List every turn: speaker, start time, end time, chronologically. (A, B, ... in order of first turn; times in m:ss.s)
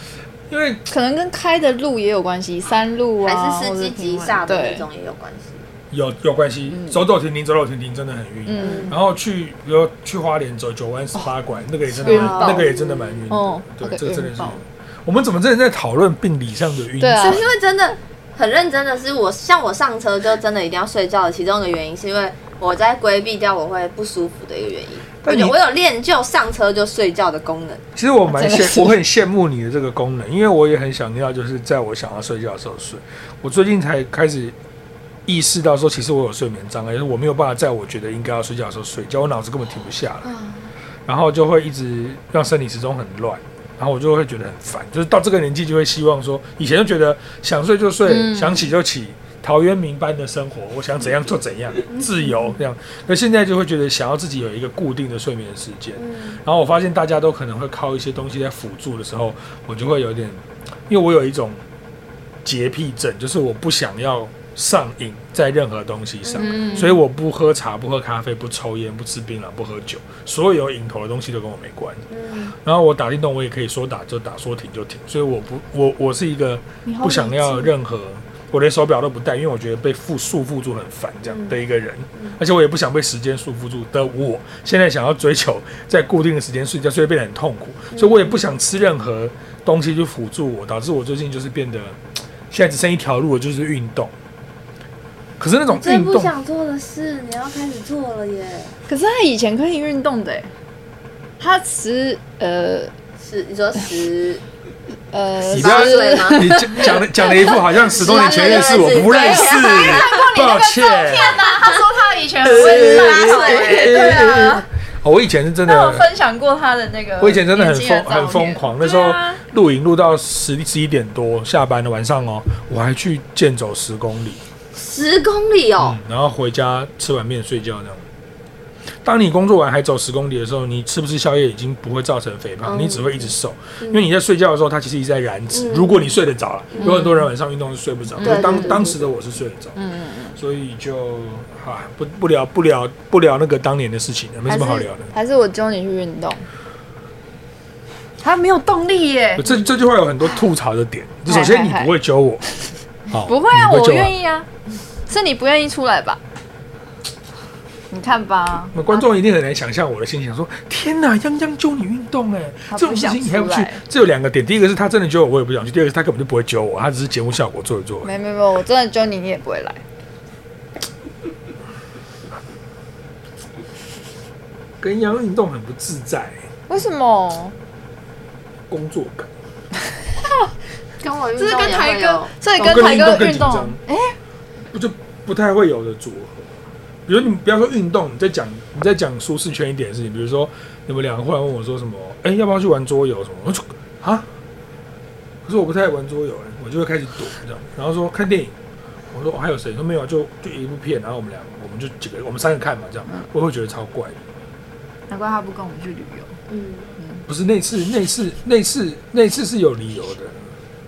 0:00.5-0:00.8 A
0:00.9-0:04.8 B
0:03.2-0:05.6 C
0:05.9-0:17.4 A
0:06.7-0:07.0 B
0:08.4-0:09.0 B
0:08.6-0:09.0 C
0:11.9-0:12.7 B
0:12.0-0:13.2 C
0:13.3-0:14.6 B
0:17.0-0:17.4 B
0:17.2-0:27.8 C
0:25.2-0:25.5 A
0:27.9-0:34.5 A
0:28.3-0:28.9 B
0:35.2-0:40.3 A
0:40.2-0:40.7 C
0:41.0-1:01.6 A
0:48.0-0:48.7 B
0:56.0-0:56.4 C
1:02.4-1:34.1 A
1:06.2-1:06.9 C
1:06.4-1:07.0 B
1:12.1-1:12.5 C
1:16.8-1:17.7 B
1:21.3-1:21.6 C
1:27.9-1:28.4 C
1:35.4-1:36.3 A
1:35.7-1:38.8 C
1:38.9-1:40.5 B
1:41.4-1:42.9 B
1:43.2-1:44.4 C
1:45.1-1:54.6 B
1:45.4-1:51.5 A
1:45.5-1:46.9 C
1:47.9-1:50.2 C
1:52.4-1:56.1 A
1:52.5-1:54.2 C
1:55.6-1:59.4 B
1:57.2-2:04.4 A
2:04.7-2:06.0 C
2:05.8-2:08.0 A
2:09.0-2:19.8 A
2:12.6-2:14.0 C
2:15.5-2:16.1 C
2:16.7-2:17.1 C
2:16.8-2:17.2 B
2:18.2-2:18.8 B
2:18.2-2:19.0 C
2:19.8-2:20.4 B
2:20.3-2:25.1 A
2:24.4-2:26.5 B
2:28.2-2:29.6 B
2:29.4-2:32.4 A
2:31.2-2:31.9 B
2:33.1-2:34.1 A
2:33.1-2:34.5 B
2:35.1-2:36.2 B
2:37.9-2:39.1 B
2:38.7-2:48.1 A
2:42.7-2:43.8 B
2:48.0-2:49.8 B
2:54.8-2:56.5 A
2:56.7-2:57.5 B
2:58.7-2:59.3 A
3:00.2-3:00.5 B
3:01.0-3:03.2 C
3:01.4-3:04.2 B
3:02.6-3:03.8 A
3:04.7-3:06.5 A
3:07.0-3:14.3 A
3:15.4-3:18.5 A
3:19.1-3:24.2 A
3:25.1-3:26.4 B
3:26.5-3:26.9 C
3:27.3-3:30.5 A